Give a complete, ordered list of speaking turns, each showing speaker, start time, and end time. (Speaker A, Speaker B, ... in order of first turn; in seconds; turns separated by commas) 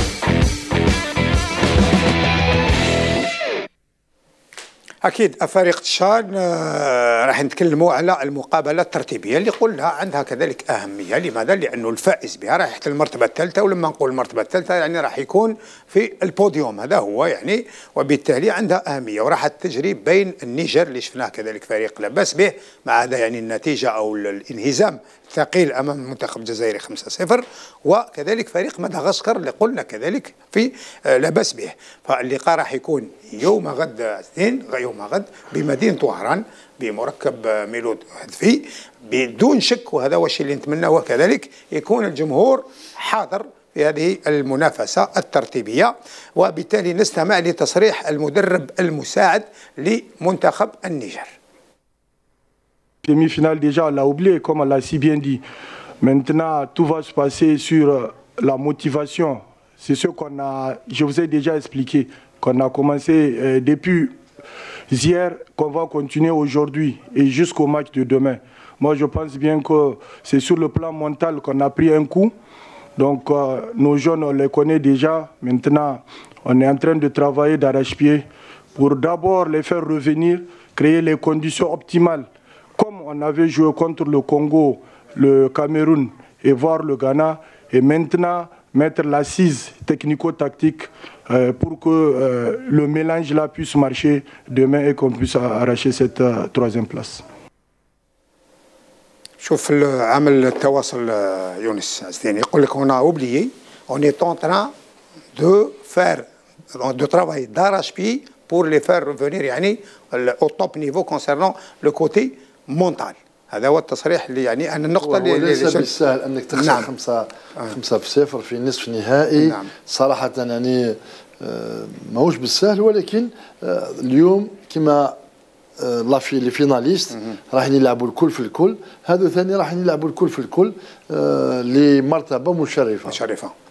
Speaker A: 5.0-51.3, Speaker B: 53.0-55.4, Speaker B: 56.0-64.1, Speaker B: 64.9-72.3, Speaker B: 73.0-97.2, Speaker A: 99.4-104.7, Speaker A: 105.3-115.9, Speaker C: 115.0-125.2, Speaker A: 116.5-116.9, Speaker A: 119.4-119.7, Speaker C: 125.8-133.2, Speaker A: 133.1-133.5